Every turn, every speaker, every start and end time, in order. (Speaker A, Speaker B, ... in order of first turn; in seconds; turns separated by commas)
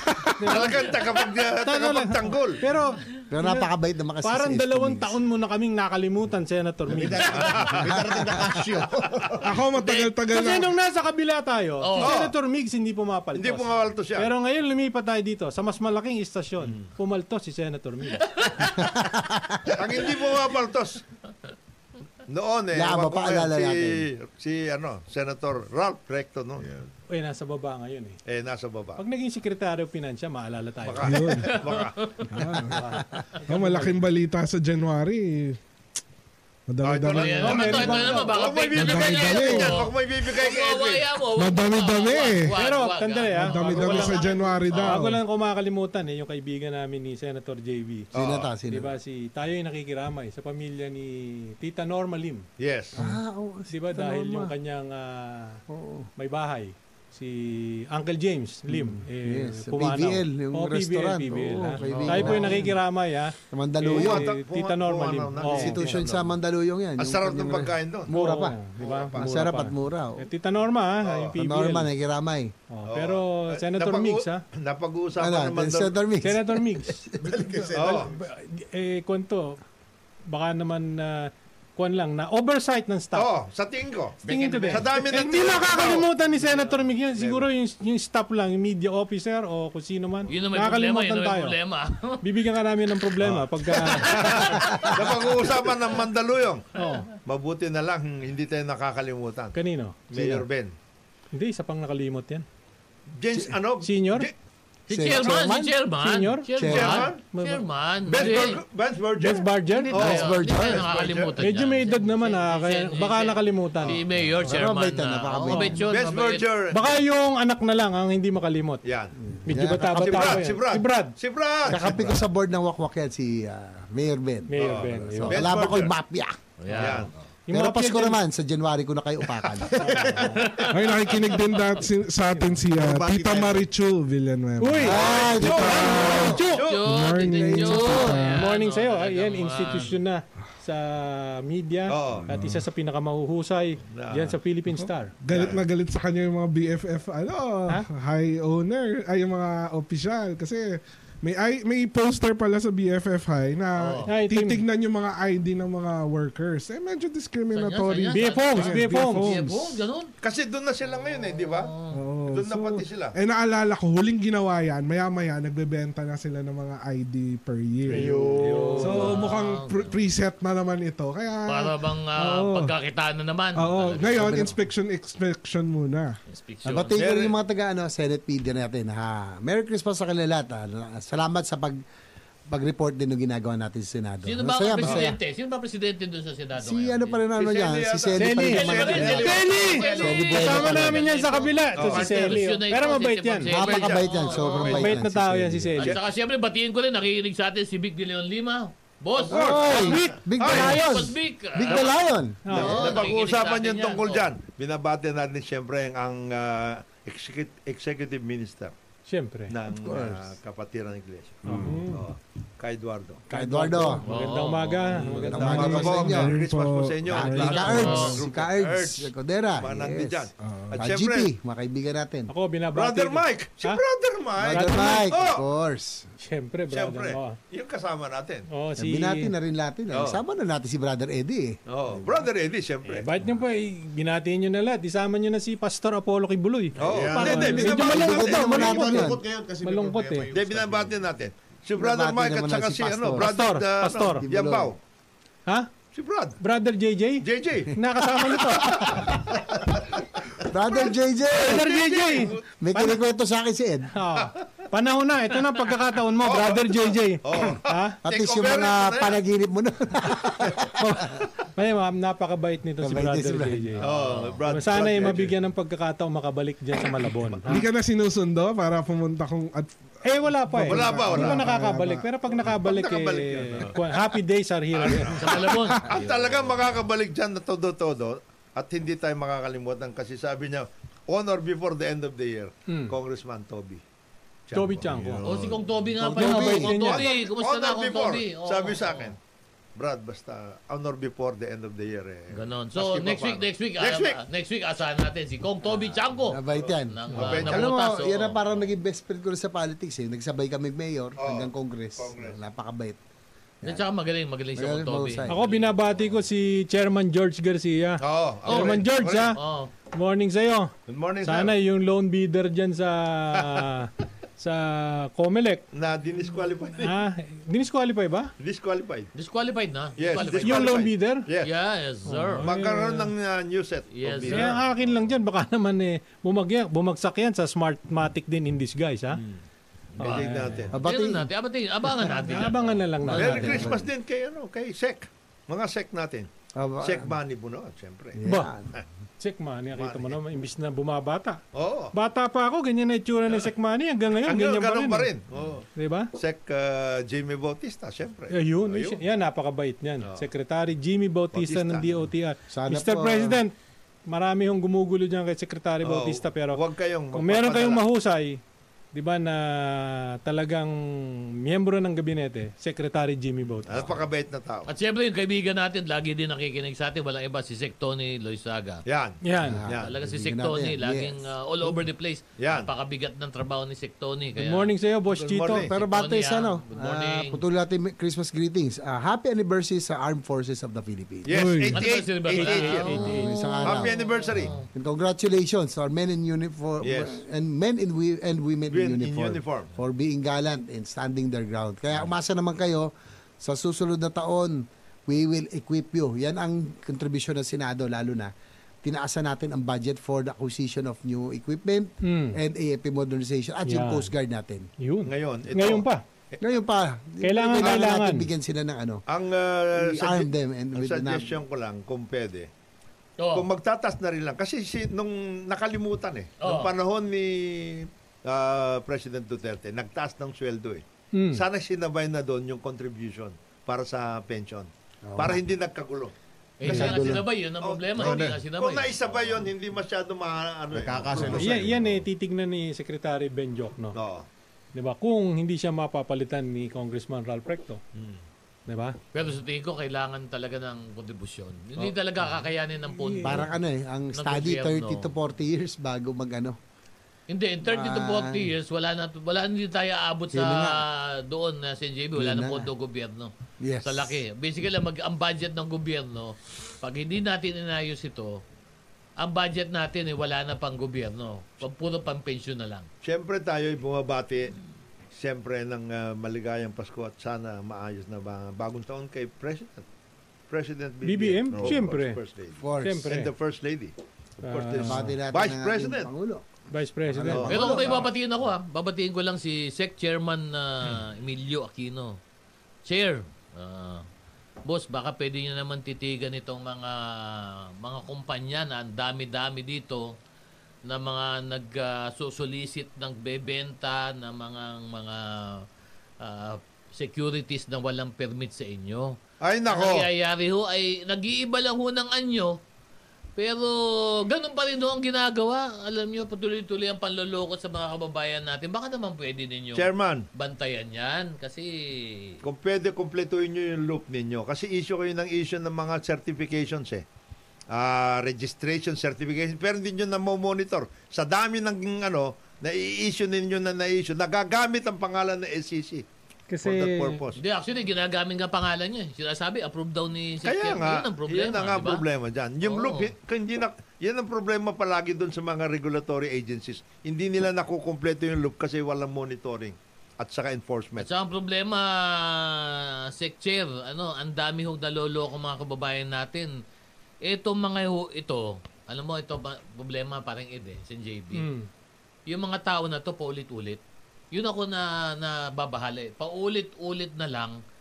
Speaker A: 0.4-0.8, Speaker B: 0.5-2.6, Speaker A: 1.6-3.7, Speaker C: 3.3-5.2, Speaker A: 4.2-7.5, Speaker D: 6.8-9.6, Speaker B: 7.4-7.8, Speaker E: 9.4-10.7, Speaker F: 9.8-10.1, Speaker A: 10.3-18.3, Speaker F: 11.8-12.1, Speaker B: 12.0-12.3, Speaker B: 13.3-14.3, Speaker B: 16.6-16.9, Speaker F: 18.3-18.8, Speaker C: 18.9-19.6, Speaker B: 19.7-21.0, Speaker B: 22.3-26.7, Speaker C: 22.7-24.1, Speaker D: 26.6-26.9, Speaker A: 27.1-28.2, Speaker B: 28.2-29.0, Speaker A: 29.0-31.4, Speaker B: 30.8-32.2, Speaker E: 31.1-31.5, Speaker F: 31.5-32.2, Speaker E: 32.3-35.6, Speaker A: 32.6-34.0, Speaker E: 36.7-39.9, Speaker B: 36.8-41.1, Speaker F: 37.1-44.9, Speaker A: 37.4-38.1, Speaker E: 41.3-42.5, Speaker A: 42.5-48.1, Speaker E: 43.4-45.2, Speaker B: 43.9-44.4, Speaker B: 48.1-48.5, Speaker C: 48.1-49.0, Speaker A: 48.7-53.2, Speaker B: 52.6-53.0, Speaker C: 52.9-54.5, Speaker A: 53.7-55.6, Speaker C: 55.7-56.1, Speaker A: 56.2-66.0, Speaker C: 58.7-62.8, Speaker F: 61.9-62.5, Speaker C: 63.5-64.3, Speaker B: 63.9-66.3, Speaker C: 65.4-68.6, Speaker B: 67.0-69.5, Speaker A: 68.1-71.9, Speaker C: 69.2-70.2, Speaker B: 71.0-71.3, Speaker C: 71.3-72.5, Speaker A: 72.7-74.4, Speaker B: 72.9-75.9, Speaker C: 75.2-76.8, Speaker A: 76.2-79.6, Speaker D: 77.2-78.1, Speaker B: 77.7-78.1, Speaker A: 80.3-83.3, Speaker B: 83.1-87.5, Speaker A: 84.2-91.5, Speaker D: 84.3-85.0, Speaker F: 90.3-92.2, Speaker A: 92.2-94.8, Speaker B: 93.2-96.7, Speaker F: 93.8-94.5, Speaker C: 94.6-94.9, Speaker A: 96.7-97.1, Speaker B: 97.2-99.6, Speaker A: 99.5-100.4, Speaker B: 100.1-100.7, Speaker A: 101.3-102.4, Speaker B: 103.1-104.3, Speaker A: 103.8-104.3, Speaker F: 104.9-108.6, Speaker C: 104.9-105.8, Speaker A: 106.0-107.6, Speaker C: 106.6-107.0, Speaker B: 106.7-107.2, Speaker B: 108.0-111.3, Speaker A: 109.2-109.9, Speaker F: 109.7-116.5, Speaker C: 109.9-110.9, Speaker A: 111.4-114.0, Speaker C: 114.4-115.8, Speaker A: 115.5-115.8, Speaker B: 115.9-117.0, Speaker A: 116.7-118.8, Speaker B: 118.8-119.1, Speaker C: 119.3-120.5, Speaker A: 119.4-121.2, Speaker B: 119.8-122.2, Speaker C: 121.7-126.4, Speaker A: 124.5-125.5, Speaker B: 124.5-125.9, Speaker F: 126.6-127.1, Speaker B: 126.7-127.1, Speaker A: 127.5-128.2, Speaker C: 127.5-129.7, Speaker A: 129.8-130.5, Speaker D: 129.8-130.5, Speaker F: 130.4-131.7, Speaker E: 130.7-138.4, Speaker D: 132.7-133.7, Speaker A: 134.6-136.6, Speaker C: 134.8-136.4, Speaker B: 134.9-136.9, Speaker F: 136.6-140.0, Speaker A: 137.9-145.1, Speaker B: 141.9-142.3, Speaker E: 142.3-142.6, Speaker B: 143.9-144.4, Speaker E: 144.8-159.8, Speaker B: 145.3-145.6, Speaker F: 153.8-154.1, Speaker A: 154.1-154.6, Speaker F: 157.5-160.1, Speaker A: 158.1-159.4, Speaker B: 160.2-161.7, Speaker F: 161.4-162.0, Speaker E: 161.9-168.2, Speaker B: 162.3-163.2, Speaker A: 167.9-169.1, Speaker D: 167.9-168.6, Speaker B: 168.4-169.1, Speaker E: 168.8-172.7, Speaker F: 168.9-170.0, Speaker F: 171.5-174.6, Speaker E: 173.6-176.2, Speaker C: 174.2-174.5, Speaker F: 176.3-177.0, Speaker C: 176.6-181.8, Speaker B: 176.9-177.3, Speaker C: 182.5-185.2, Speaker F: 184.2-187.2, Speaker B: 184.8-185.1, Speaker C: 186.6-191.1, Speaker B: 187.3-190.1, Speaker A: 188.2-193.5, Speaker F: 188.4-194.9, Speaker B: 191.7-192.5, Speaker C: 193.5-195.9, Speaker B: 193.5-194.9, Speaker A: 194.6-195.9, Speaker F: 195.8-201.9, Speaker B: 199.2-200.7, Speaker C: 199.3-203.0, Speaker A: 199.4-200.7, Speaker A: 202.4-202.8, Speaker F: 202.5-204.3, Speaker B: 202.5-208.7, Speaker A: 209.1-209.5, Speaker B: 209.5-213.2, Speaker C: 209.7-210.3, Speaker A: 211.4-212.0, Speaker E: 211.5-211.8, Speaker C: 213.3-214.0, Speaker A: 213.3-215.9, Speaker F: 214.1-215.2, Speaker B: 215.1-221.3, Speaker C: 215.1-216.4, Speaker E: 215.3-218.1, Speaker C: 217.1-222.3, Speaker A: 217.3-217.8, Speaker F: 217.7-218.2, Speaker E: 220.4-220.8, Speaker A: 222.3-223.8, Speaker B: 222.7-225.4, Speaker C: 224.4-226.1, Speaker A: 224.5-225.1, Speaker A: 226.2-227.4, Speaker B: 226.7-228.4, Speaker A: 228.5-229.3, Speaker C: 228.8-231.6, Speaker B: 229.9-230.2, Speaker B: 231.7-233.1, Speaker A: 232.8-240.3, Speaker B: 236.8-238.7, Speaker D: 236.8-241.0, Speaker C: 236.9-239.2, Speaker B: 240.3-244.8, Speaker C: 241.8-243.3, Speaker A: 243.2-244.2, Speaker C: 244.2-244.8, Speaker B: 245.9-246.4, Speaker A: 246.4-249.0, Speaker B: 247.2-247.7, Speaker B: 248.5-250.8, Speaker C: 248.8-249.1, Speaker C: 250.4-251.8, Speaker A: 251.3-253.0, Speaker B: 251.4-252.4, Speaker C: 252.6-253.9, Speaker A: 253.9-258.0, Speaker B: 256.2-259.2, Speaker C: 258.0-261.2, Speaker A: 261.5-263.8, Speaker C: 262.8-263.8, Speaker B: 263.8-265.4, Speaker F: 263.9-264.2, Speaker A: 264.5-267.6, Speaker E: 267.5-269.7, Speaker A: 270.0-275.4, Speaker E: 270.5-272.1, Speaker B: 270.7-271.4, Speaker B: 272.3-274.0, Speaker B: 274.7-283.8, Speaker F: 275.1-276.6, Speaker A: 282.7-282.9, Speaker B: 284.5-285.0, Speaker A: 284.5-285.3, Speaker D: 284.9-285.9, Speaker F: 285.2-289.1, Speaker C: 286.0-286.7, Speaker A: 286.1-287.1, Speaker B: 286.8-289.2, Speaker B: 289.8-294.2, Speaker F: 292.3-298.6, Speaker C: 296.3-303.0, Speaker B: 297.1-298.1, Speaker B: 301.2-302.4, Speaker F: 303.6-305.8, Speaker C: 304.5-305.4, Speaker A: 305.3-309.4, Speaker B: 308.0-309.4, Speaker F: 308.5-308.8, Speaker F: 309.3-309.7, Speaker A: 309.9-315.6, Speaker B: 310.9-311.5, Speaker B: 315.7-317.0, Speaker A: 316.8-318.3, Speaker B: 318.4-319.1, Speaker F: 319.1-320.8, Speaker B: 320.0-321.5, Speaker A: 320.4-321.2, Speaker F: 321.4-322.5, Speaker A: 322.1-323.1, Speaker B: 322.4-325.0, Speaker F: 323.9-324.5, Speaker A: 324.2-329.2, Speaker B: 329.1-329.4, Speaker B: 330.0-330.8, Speaker A: 330.0-330.7, Speaker C: 330.7-331.3, Speaker F: 330.7-333.2, Speaker A: 332.2-333.6, Speaker C: 333.1-333.9, Speaker B: 333.1-336.3, Speaker C: 336.5-337.1, Speaker B: 336.8-338.2, Speaker C: 338.1-338.7, Speaker A: 339.2-341.4, Speaker B: 339.7-340.2, Speaker B: 341.5-341.9, Speaker A: 341.9-345.1, Speaker B: 344.2-345.6, Speaker A: 345.8-346.1, Speaker B: 346.1-349.0, Speaker A: 348.3-353.5, Speaker B: 351.3-351.9, Speaker C: 352.5-353.4, Speaker A: 354.1-356.6, Speaker B: 355.8-357.8, Speaker A: 357.1-358.4, Speaker A: 358.9-363.9, Speaker B: 363.6-364.7, Speaker F: 364.7-368.8, Speaker B: 368.9-369.9, Speaker A: 369.2-369.6, Speaker C: 369.4-371.7, Speaker F: 369.8-374.7, Speaker B: 372.4-372.7, Speaker A: 374.4-375.7, Speaker B: 375.1-375.8, Speaker C: 375.5-381.5, Speaker F: 375.8-377.4, Speaker B: 381.2-382.9, Speaker E: 381.3-381.8, Speaker F: 381.7-384.7, Speaker A: 382.3-383.3, Speaker C: 382.9-383.9, Speaker B: 383.6-384.6, Speaker C: 384.7-398.3, Speaker B: 386.8-387.2, Speaker B: 388.7-389.7, Speaker C: 398.8-404.7, Speaker A: 402.0-402.4, Speaker A: 403.7-404.1, Speaker A: 404.8-406.0, Speaker B: 405.1-406.4, Speaker C: 406.4-409.0, Speaker A: 407.2-408.3, Speaker B: 409.1-412.5, Speaker C: 409.7-411.4, Speaker F: 413.2-413.5, Speaker B: 413.3-426.1, Speaker F: 416.4-416.7, Speaker A: 421.1-421.4, Speaker C: 425.1-425.4, Speaker F: 426.6-428.9, Speaker C: 426.6-427.2, Speaker B: 426.7-427.0, Speaker B: 427.6-431.8, Speaker D: 428.0-428.4, Speaker D: 430.7-432.0, Speaker A: 431.3-434.0, Speaker B: 433.9-434.3, Speaker A: 434.7-437.8, Speaker B: 437.9-438.2, Speaker A: 438.7-438.9, Speaker F: 439.1-443.5, Speaker A: 442.9-443.4, Speaker C: 443.2-446.6, Speaker F: 444.1-445.1, Speaker F: 447.3-453.3, Speaker C: 447.6-448.5, Speaker C: 450.3-450.8, Speaker C: 452.1-452.7, Speaker C: 453.6-454.2, Speaker F: 453.8-458.4, Speaker F: 459.2-462.9, Speaker B: 463.0-464.5, Speaker B: 465.1-469.8, Speaker B: 470.5-476.1, Speaker A: 471.0-472.2, Speaker D: 471.5-471.8, Speaker C: 472.6-473.1, Speaker A: 472.8-473.3, Speaker A: 474.4-475.1, Speaker C: 474.8-476.4, Speaker A: 476.7-477.6, Speaker C: 477.1-478.0, Speaker B: 477.3-478.1, Speaker F: 477.5-482.2, Speaker F: 482.9-484.0, Speaker F: 484.6-490.1, Speaker F: 490.9-495.6, Speaker F: 496.2-499.1, Speaker B: 499.4-500.1, Speaker F: 499.7-502.6, Speaker F: 503.4-512.4, Speaker B: 509.7-510.2, Speaker B: 512.4-517.0, Speaker B: 517.7-526.0, Speaker A: 526.5-527.2, Speaker B: 526.6-527.4, Speaker F: 527.4-532.0, Speaker B: 530.4-541.1, Speaker F: 532.6-533.1, Speaker F: 541.0-546.6, Speaker F: 547.2-551.5, Speaker A: 551.3-551.7, Speaker F: 552.3-553.8, Speaker F: 554.3-557.6